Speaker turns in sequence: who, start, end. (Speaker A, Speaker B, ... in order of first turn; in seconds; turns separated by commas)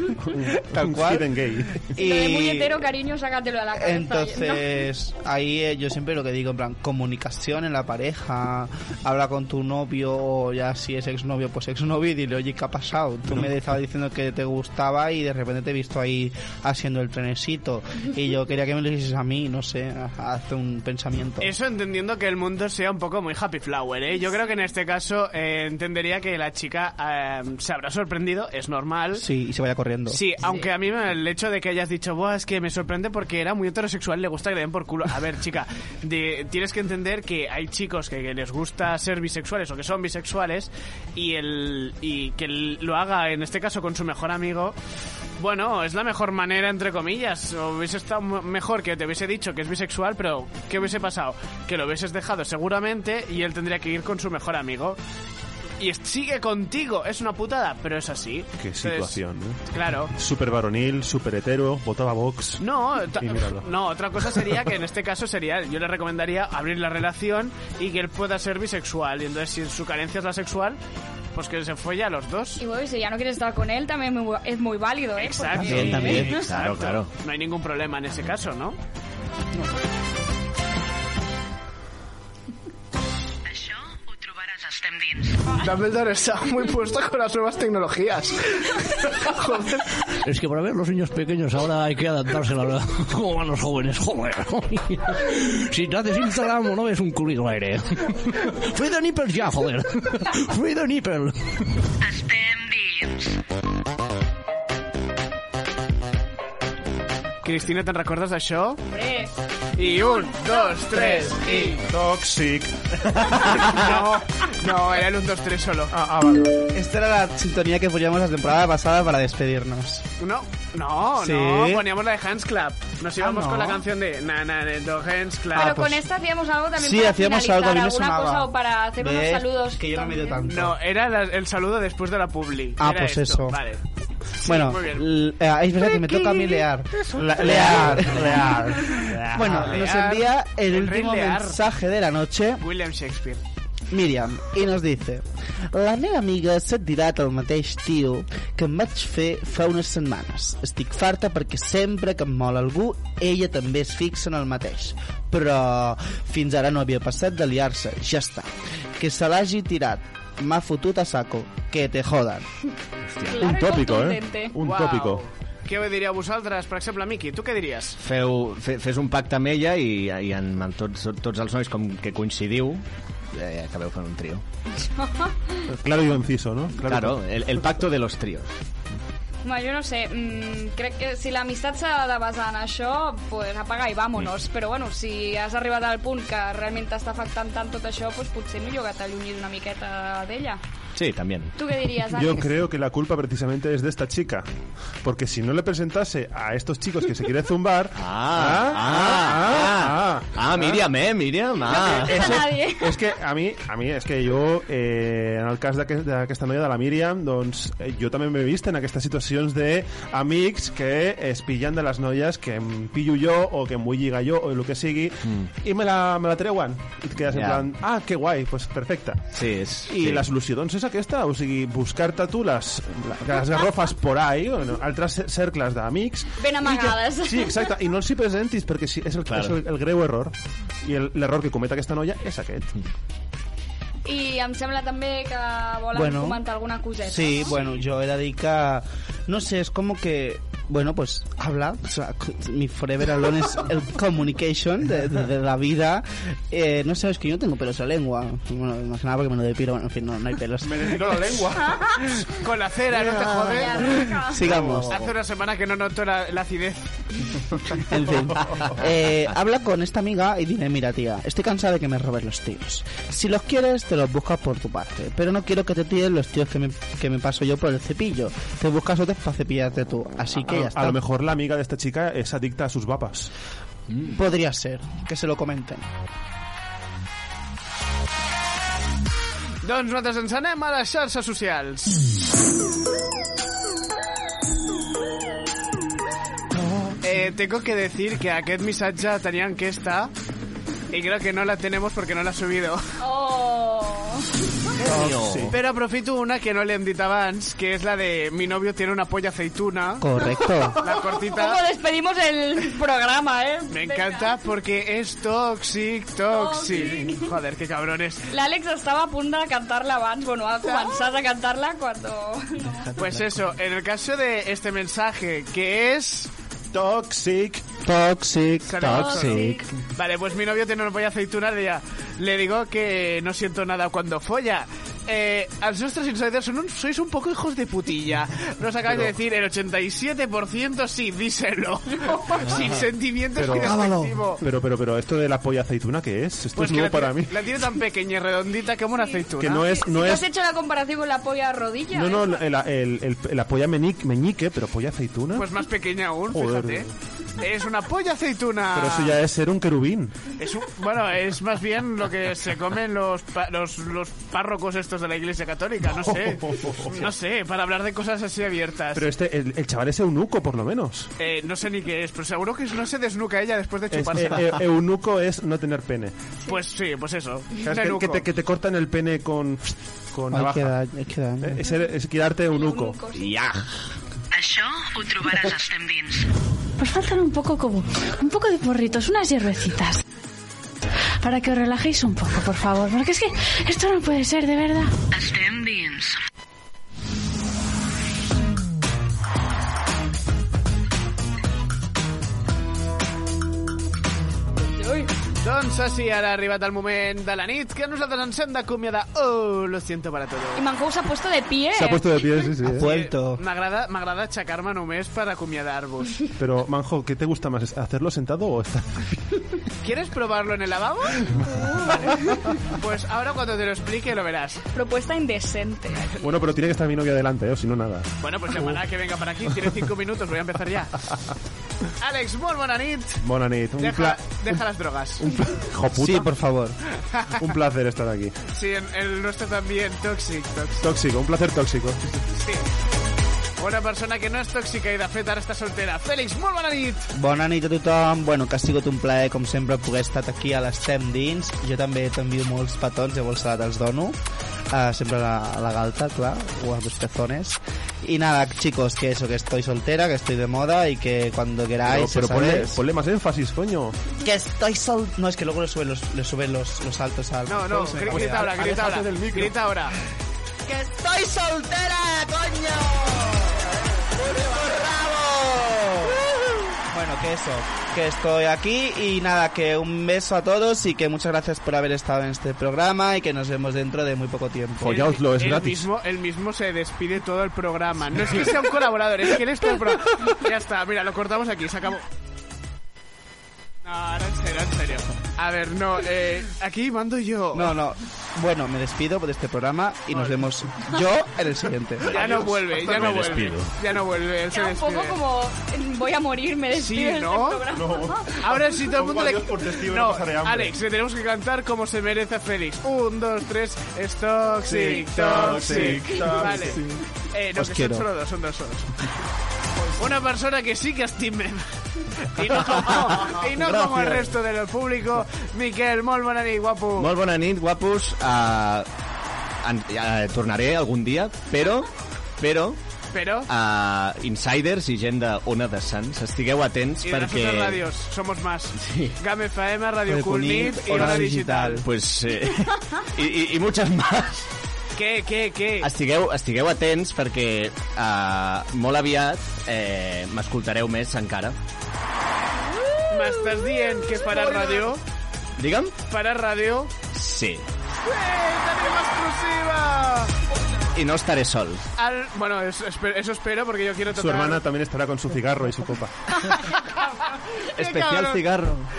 Speaker A: 0.2-1.8, Speaker B: 0.7-1.2, Speaker B: 1.9-2.8, Speaker C: 1.9-4.7, Speaker B: 3.7-21.5, Speaker D: 21.4-29.2, Speaker B: 29.1-30.2, Speaker D: 30.1-44.8, Speaker D: 45.4-55.0, Speaker D: 55.8-59.2, Speaker A: 58.6-59.6, Speaker D: 59.7-60.1, Speaker A: 60.1-62.6, Speaker D: 62.6-70.8, Speaker A: 63.2-63.7, Speaker A: 64.2-64.5, Speaker D: 71.3-72.6, Speaker C: 72.6-76.4, Speaker D: 75.2-78.8, Speaker B: 75.6-76.3, Speaker E: 75.7-77.1, Speaker F: 83.4-85.4, Speaker D: 85.5-90.0, Speaker G: 90.3-101.5, Speaker F: 102.0-103.4, Speaker D: 107.4-108.8, Speaker C: 108.9-110.8, Speaker D: 109.8-111.7, Speaker B: 110.9-111.8, Speaker A: 111.8-114.0, Speaker D: 113.5-115.9, Speaker A: 115.9-116.6, Speaker B: 116.7-120.0, Speaker D: 120.2-125.9, Speaker B: 121.2-121.8, Speaker B: 123.2-123.8, Speaker B: 125.5-126.0, Speaker C: 125.5-130.3, Speaker B: 126.8-130.8, Speaker D: 130.5-133.8, Speaker B: 132.8-133.6, Speaker D: 134.4-135.1, Speaker B: 134.4-142.6, Speaker A: 137.2-139.8, Speaker D: 139.3-141.6, Speaker D: 142.6-143.4, Speaker B: 143.9-162.4, Speaker C: 163.3-164.5, Speaker A: 163.4-165.2, Speaker D: 164.6-168.0, Speaker E: 168.0-174.4, Speaker C: 174.8-175.6, Speaker A: 175.7-177.8, Speaker E: 176.8-178.5, Speaker C: 179.4-190.6, Speaker E: 190.9-191.5, Speaker C: 191.6-192.5, Speaker A: 192.1-194.5, Speaker A: 195.0-200.8, Speaker E: 198.0-202.4, Speaker C: 201.7-202.9, Speaker A: 201.8-230.3, Speaker E: 217.3-217.7, Speaker E: 219.3-220.3, Speaker C: 226.4-227.7, Speaker E: 229.3-229.6, Speaker A: 230.8-232.7, Speaker C: 234.1-237.5, Speaker B: 235.9-236.4, Speaker B: 237.0-251.0, Speaker A: 250.6-251.8, Speaker C: 251.6-251.9, Speaker D: 252.4-253.8, Speaker C: 253.5-254.4, Speaker B: 253.8-255.1, Speaker D: 254.4-257.0, Speaker B: 257.8-271.0, Speaker A: 270.5-273.3, Speaker B: 274.1-275.9, Speaker D: 279.6-282.0, Speaker D: 287.0-290.1, Speaker D: 290.9-292.9, Speaker C: 293.0-294.3, Speaker E: 294.8-295.5, Speaker B: 294.9-295.5, Speaker A: 294.9-295.5, Speaker D: 295.5-300.1, Speaker B: 300.0-300.8, Speaker D: 300.8-301.6, Speaker C: 301.4-304.3, Speaker D: 303.7-308.2, Speaker C: 306.3-307.3, Speaker C: 308.3-312.9, Speaker D: 312.9-316.3, Speaker A: 316.7-317.6, Speaker B: 317.8-319.6, Speaker D: 318.7-334.4, Speaker C: 318.9-319.6, Speaker C: 332.1-332.4, Speaker E: 332.5-332.8, Speaker A: 333.4-337.5, Speaker D: 336.6-339.6, Speaker C: 339.0-342.4, Speaker A: 339.4-340.2, Speaker A: 341.9-345.5, Speaker D: 345.4-346.9, Speaker A: 346.3-346.9, Speaker D: 347.4-349.2, Speaker A: 348.7-350.1, Speaker D: 350.4-359.0, Speaker A: 356.0-357.1, Speaker A: 358.9-361.1, Speaker D: 361.2-364.4, Speaker A: 363.9-366.1, Speaker D: 366.5-368.3, Speaker A: 367.6-370.7, Speaker B: 370.3-371.6, Speaker A: 371.4-373.0, Speaker C: 372.5-373.2, Speaker E: 373.1-373.6, Speaker F: 374.3-376.3, Speaker H: 376.8-380.0, Speaker H: 381.2-384.9, Speaker F: 385.1-386.2, Speaker C: 394.7-395.1, Speaker D: 395.4-400.6, Speaker C: 400.6-402.5, Speaker A: 401.7-402.9, Speaker B: 402.6-403.4, Speaker D: 402.7-406.2, Speaker A: 406.4-409.1, Speaker D: 409.8-411.3, Speaker D: 411.9-412.1, Speaker D: 412.7-414.6, Speaker C: 414.7-416.2, Speaker A: 416.2-418.7, Speaker D: 418.2-421.1, Speaker D: 422.0-423.2, Speaker A: 423.2-424.6, Speaker D: 423.8-425.2, Speaker A: 425.2-426.3, Speaker B: 425.9-426.8, Speaker A: 427.4-428.4, Speaker D: 428.6-430.9, Speaker A: 430.8-432.2, Speaker D: 432.3-432.6, Speaker D: 433.6-437.1, Speaker B: 437.1-444.1, Speaker B: 444.7-452.8, Speaker A: 451.9-454.0, Speaker B: 454.2-458.7, Speaker D: 457.5-459.9, Speaker A: 458.1-459.5, Speaker B: 460.7-463.6, Speaker B: 464.2-466.1, Speaker B: 466.9-474.9, Speaker A: 474.8-475.9, Speaker D: 474.9-482.0, Speaker D: 483.9-487.8, Speaker B: 487.5-492.3, Speaker D: 490.1-490.4, Speaker E: 492.1-493.7, Speaker D: 492.1-495.1, Speaker C: 494.5-498.4, Speaker D: 496.7-497.6, Speaker A: 497.7-500.8, Speaker D: 498.4-506.8, Speaker A: 504.6-506.9, Speaker E: 505.3-506.4, Speaker D: 507.3-508.9, Speaker B: 507.6-508.1, Speaker D: 510.0-517.1, Speaker E: 513.6-514.3, Speaker E: 517.0-518.9, Speaker E: 519.6-521.9, Speaker E: 522.4-522.8, Speaker D: 523.1-523.5, Speaker E: 523.5-527.8, Speaker D: 527.0-531.9, Speaker E: 528.8-529.1, Speaker B: 530.1-531.9, Speaker E: 531.8-534.5, Speaker D: 535.0-535.9, Speaker E: 535.8-541.6, Speaker D: 543.1-545.0, Speaker E: 545.6-546.0, Speaker D: 546.0-546.9, Speaker E: 547.1-547.6, Speaker D: 548.0-550.3, Speaker E: 550.9-551.8, Speaker D: 552.0-554.6, Speaker A: 554.1-556.1, Speaker E: 557.8-558.9, Speaker D: 557.8-558.4